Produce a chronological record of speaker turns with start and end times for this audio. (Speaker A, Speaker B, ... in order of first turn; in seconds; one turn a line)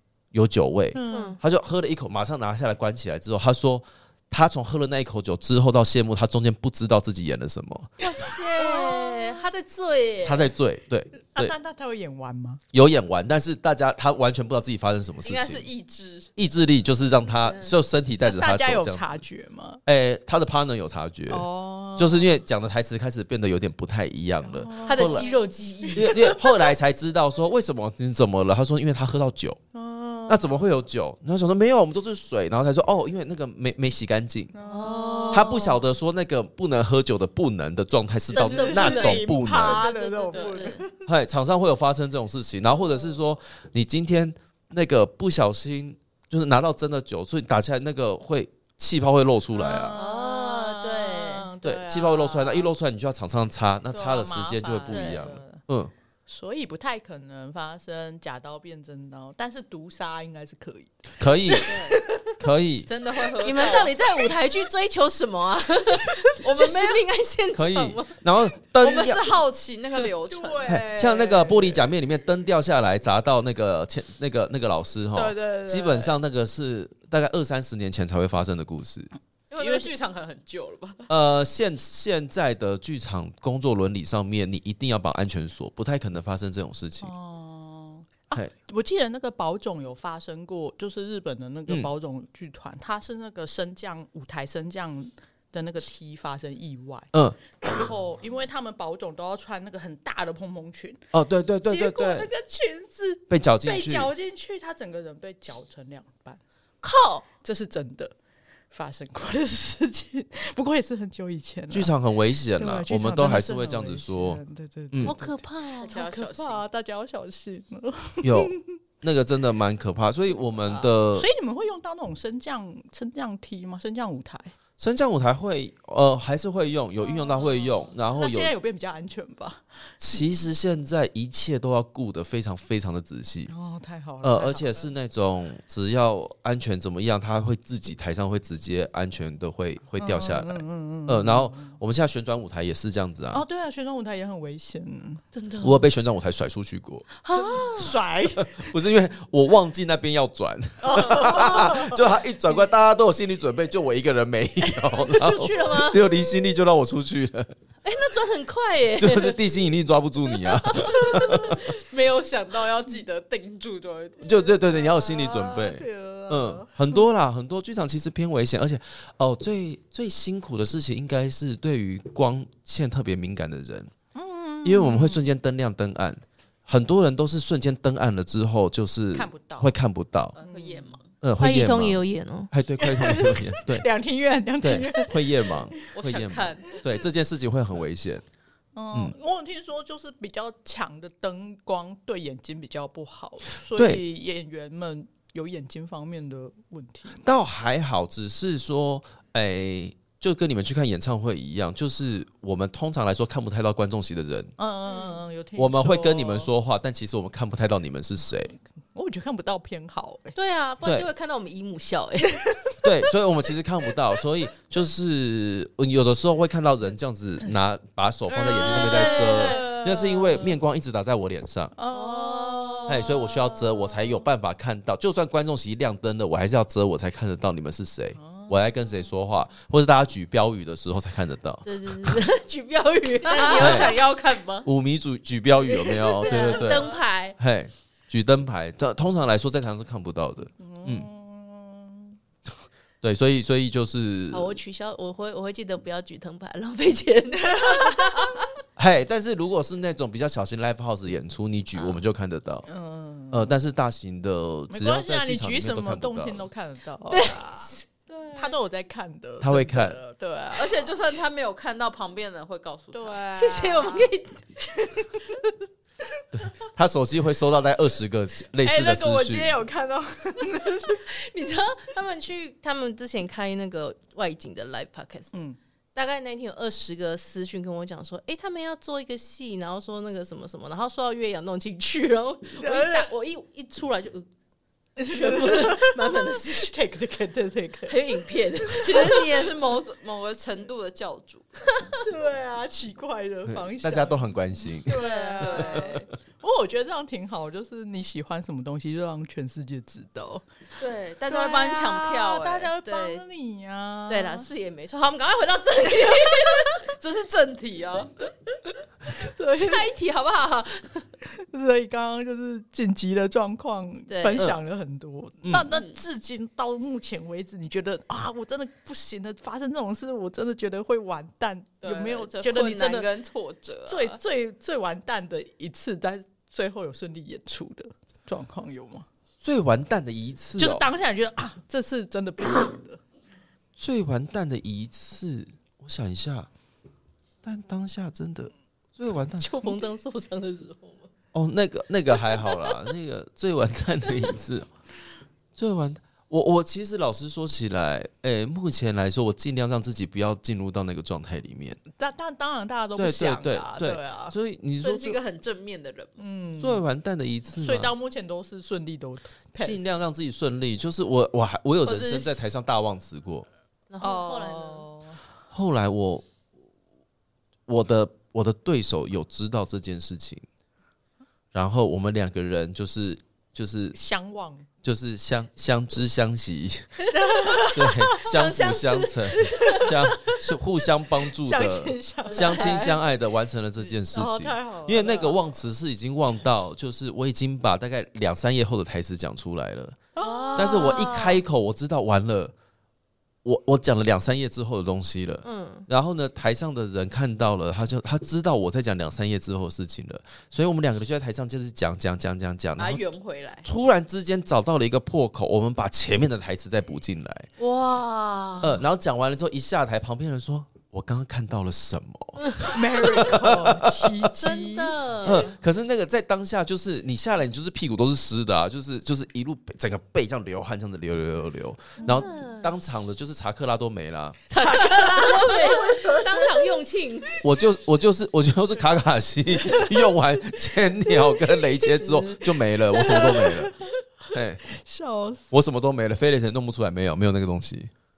Speaker A: 0.3-7.9
Speaker B: 0.9-1.4
Speaker C: 1.1-1.4
Speaker B: 8.0-9.4
Speaker C: 8.2-10.5
Speaker A: 10.2-11.5
Speaker B: 11.2-12.6
Speaker A: 12.7-15.7
Speaker D: 15.2-16.3
Speaker A: 16.4-19.2
Speaker C: 17.4-17.8
Speaker B: 18.2-19.8
Speaker A: 19.9-25.3
Speaker B: 21.3-22.3
Speaker B: 24.4-26.4
Speaker C: 24.9-26.4
Speaker A: 25.9-29.6
Speaker B: 29.7-30.6
Speaker A: 30.3-34.5
Speaker B: 34.5-35.5
Speaker C: 34.6-35.8
Speaker A: 35.3-39.9
Speaker C: 38.3-40.8
Speaker B: 38.3-41.0
Speaker D: 40.3-40.6
Speaker A: 41.1-50.0
Speaker B: 49.5-52.7
Speaker C: 49.9-51.5
Speaker A: 51.6-55.9
Speaker B: 53.9-55.6
Speaker C: 54.9-55.2
Speaker B: 56.3-60.9
Speaker A: 61.2-61.8
Speaker B: 61.5-62.3
Speaker D: 61.6-62.0
Speaker A: 62.4-62.9
Speaker D: 62.9-64.0
Speaker C: 63.4-68.1
Speaker D: 66.4-67.0
Speaker A: 67.5-69.4
Speaker D: 68.8-70.8
Speaker B: 70.3-71.8
Speaker A: 70.7-79.1
Speaker B: 75.1-76.1
Speaker D: 79.5-81.1
Speaker C: 79.6-79.9
Speaker A: 81.1-87.1
Speaker B: 87.0-101.0
Speaker A: 101.1-102.3
Speaker B: 101.6-106.4
Speaker A: 103.3-104.1
Speaker C: 106.8-107.3
Speaker B: 107.4-108.1
Speaker B: 108.7-111.9
Speaker A: 111.7-114.4
Speaker B: 112.6-118.8
Speaker A: 114.9-115.2
Speaker C: 115.0-115.9
Speaker D: 115.8-116.6
Speaker A: 118.2-121.3
Speaker B: 120.7-124.5
Speaker A: 124.8-128.5
Speaker B: 127.2-129.8
Speaker A: 130.0-133.5
Speaker B: 133.5-134.9
Speaker A: 134.2-143.4
Speaker B: 140.0-141.8
Speaker B: 143.3-145.2
Speaker C: 145.3-145.8
Speaker A: 145.6-147.1
Speaker C: 147.2-148.0
Speaker B: 147.3-148.7
Speaker A: 148.4-157.5
Speaker B: 150.8-152.1
Speaker B: 154.7-155.1
Speaker C: 155.0-156.1
Speaker C: 157.8-159.4
Speaker A: 159.0-161.6
Speaker D: 161.1-164.3
Speaker A: 164.2-173.9
Speaker B: 164.4-167.0
Speaker B: 174.2-175.3
Speaker A: 174.6-180.3
Speaker B: 179.1-179.7
Speaker D: 180.3-181.1
Speaker B: 180.4-181.0
Speaker A: 181.2-183.9
Speaker C: 181.4-182.5
Speaker B: 182.8-185.5
Speaker A: 184.6-188.2
Speaker D: 185.9-186.8
Speaker B: 188.8-197.3
Speaker A: 193.8-194.0
Speaker A: 197.2-204.5
Speaker B: 204.6-206.5
Speaker A: 205.6-208.5
Speaker B: 208.9-210.3
Speaker C: 210.3-212.5
Speaker A: 210.8-211.1
Speaker B: 212.4-212.8
Speaker A: 212.8-221.7
Speaker B: 218.3-220.5
Speaker C: 218.4-219.7
Speaker B: 221.8-223.3
Speaker C: 221.9-223.1
Speaker A: 222.9-232.2
Speaker B: 228.2-228.8
Speaker C: 231.7-234.0
Speaker D: 233.2-234.7
Speaker A: 233.6-234.0
Speaker A: 234.7-241.1
Speaker C: 235.9-237.4
Speaker B: 236.3-236.9
Speaker B: 240.6-242.2
Speaker A: 243.0-244.6
Speaker C: 244.3-248.5
Speaker B: 247.4-248.3
Speaker A: 248.8-252.7
Speaker C: 251.8-252.0
Speaker B: 252.7-253.6
Speaker A: 253.3-256.4
Speaker B: 254.7-257.8
Speaker C: 257.1-258.5
Speaker B: 258.3-260.9
Speaker A: 259.4-260.0
Speaker D: 260.6-263.2
Speaker B: 262.9-264.1
Speaker C: 263.3-264.5
Speaker B: 264.7-265.5
Speaker A: 266.3-269.5
Speaker B: 268.6-271.0
Speaker C: 271.1-275.3
Speaker B: 275.3-275.6
Speaker C: 275.9-284.3
Speaker B: 282.6-283.1
Speaker B: 285.0-289.2
Speaker C: 285.1-286.7
Speaker C: 287.9-289.3
Speaker D: 288.8-291.5
Speaker B: 292.0-294.3
Speaker A: 293.5-295.0
Speaker B: 294.9-300.4
Speaker D: 294.9-296.1
Speaker C: 294.9-295.9
Speaker D: 300.8-302.7
Speaker B: 301.3-304.5
Speaker C: 302.8-303.2
Speaker C: 304.1-306.9
Speaker D: 306.8-308.2
Speaker B: 309.1-309.9
Speaker C: 309.5-311.1
Speaker B: 311.3-323.1
Speaker C: 314.1-314.5
Speaker A: 315.4-315.7
Speaker D: 321.8-324.2
Speaker B: 323.9-329.1
Speaker A: 329.4-330.9
Speaker B: 330.6-333.0
Speaker A: 333.8-336.5
Speaker A: 337.4-339.6
Speaker C: 339.4-341.1
Speaker A: 341.3-344.7
Speaker A: 345.6-351.8
Speaker B: 352.0-354.4
Speaker A: 353.0-355.2
Speaker D: 354.8-356.2
Speaker B: 356.2-356.8
Speaker A: 356.6-357.9
Speaker B: 357.5-359.8
Speaker A: 359.6-363.5
Speaker D: 361.9-362.5
Speaker C: 363.9-364.9
Speaker B: 364.0-365.2
Speaker A: 365.5-366.3
Speaker A: 367.7-370.4
Speaker A: 371.5-374.0
Speaker B: 373.9-374.7
Speaker A: 374.8-377.1
Speaker B: 377.1-378.3
Speaker C: 377.2-377.7
Speaker A: 377.7-390.0
Speaker C: 378.2-379.9
Speaker B: 379.3-380.4
Speaker B: 381.4-383.0
Speaker C: 382.4-382.9
Speaker B: 383.9-385.4
Speaker B: 390.1-390.9
Speaker C: 390.2-391.4
Speaker A: 390.6-392.5
Speaker A: 393.4-403.0
Speaker C: 395.4-395.9
Speaker D: 402.8-403.7
Speaker A: 403.6-407.5
Speaker C: 407.6-408.8
Speaker A: 408.6-414.2
Speaker C: 412.5-412.7
Speaker B: 412.7-415.5
Speaker C: 414.4-415.5
Speaker A: 415.2-424.4
Speaker B: 422.0-422.2
Speaker C: 422.0-422.7
Speaker B: 424.5-426.8
Speaker C: 424.6-427.4
Speaker D: 424.6-425.5
Speaker A: 427.4-433.7
Speaker B: 429.6-429.9
Speaker C: 432.0-432.3
Speaker B: 433.0-433.9
Speaker C: 433.1-433.4
Speaker A: 434.3-434.6
Speaker B: 434.7-435.5
Speaker A: 435.5-437.9